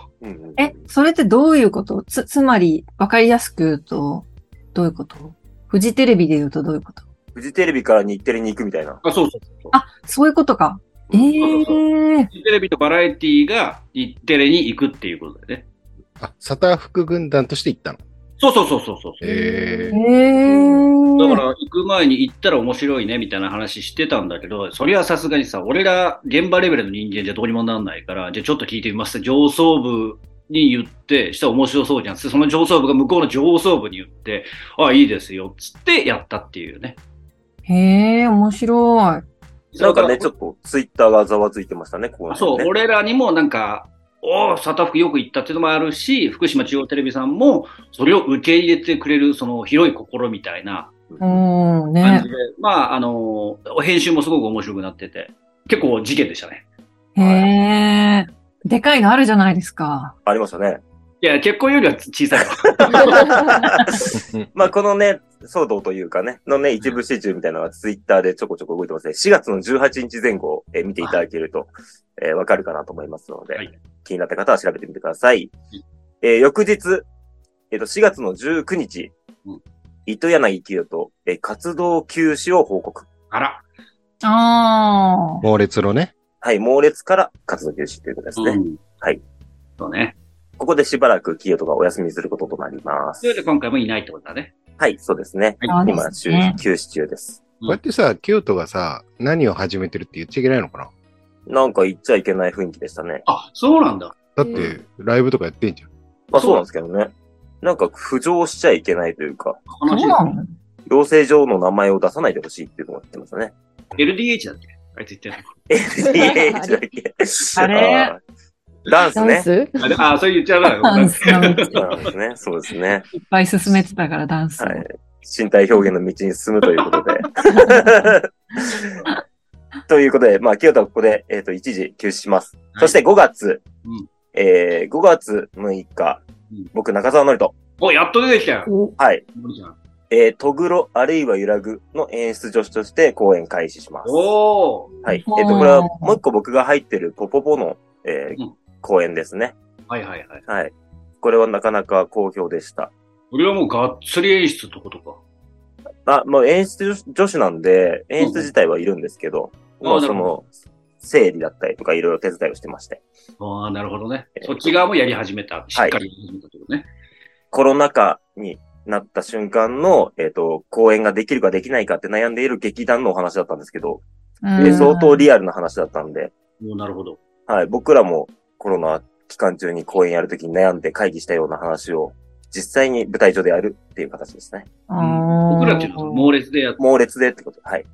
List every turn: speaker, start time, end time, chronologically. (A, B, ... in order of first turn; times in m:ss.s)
0:00.2-0:00.9 A
0:00.6-0:07.0 B
0:07.4-0:09.0 A
0:09.0-0:09.7 C
0:09.7-0:12.3 B
0:11.1-0:11.4 A
0:11.4-0:15.7 C
0:16.2-0:18.0 D
0:18.4-0:19.2 C
0:19.2-0:20.0 D
0:19.3-0:21.4 B
0:21.2-0:37.0 C
0:37.7-0:39.2 B
0:39.7-0:40.3 C
0:39.8-0:42.7 A
0:42.3-0:50.9 C
0:51.2-0:52.3 B
0:52.0-0:56.6 C
0:57.2-1:00.1 B
0:57.2-0:57.5 A
1:00.3-1:00.8 A
1:01.2-1:03.3 C
1:02.7-1:15.5 A
1:16.2-1:17.1 A
1:17.7-1:19.1 A
1:20.1-1:23.1 A
1:23.3-1:23.6 C
1:24.2-1:25.4 B
1:25.4-1:26.1 D
1:26.4-1:29.2 A
1:28.4-1:28.8 C
1:29.8-1:30.2 C
1:30.6-1:33.4 A
1:33.2-1:34.5 C
1:34.8-1:37.4 A
1:35.7-1:36.6 B
1:37.7-1:40.9 D
1:41.5-1:43.2 A
1:43.3-1:44.2 C
1:44.4-1:45.9 D
1:44.4-1:44.7 E
1:46.3-1:49.6 A
1:46.4-1:46.6 C
1:49.7-1:50.2 C
1:49.9-1:50.5 B
1:50.9-1:53.5 A
1:54.0-1:55.5 C
1:55.7-1:58.2 A
1:56.0-1:56.8 E
1:57.6-1:58.1 B
1:58.9-1:59.5 A
1:59.2-2:00.0 E
1:59.8-2:01.8 C
2:00.8-2:01.8 B
2:01.7-2:03.1 A
2:03.1-2:04.8 B
2:04.6-2:09.1 A
2:09.9-2:13.6 A
2:14.3-2:17.6 A
2:17.8-2:18.7 C
2:18.7-2:18.9 E
2:19.0-2:19.2 A
2:19.4-2:19.8 C
2:20.1-2:24.3 A
2:24.0-2:24.9 C
2:25.0-2:29.6 A
2:25.3-2:26.2 B
2:29.9-2:30.4 C
2:30.5-2:32.9 A
2:33.3-2:35.2 C
2:36.1-2:40.5 A
2:38.2-2:38.5 C
2:39.8-2:40.3 C
2:41.0-2:43.0 A
2:43.4-2:46.9 C
2:44.4-2:44.7 A
2:47.5-2:54.0 A
2:54.4-2:55.3 B
2:54.6-2:56.3 A
2:56.6-2:57.2 C
2:57.5-3:04.7 A
3:04.9-3:06.3 B
3:05.0-3:06.8 C
3:06.8-3:07.9 A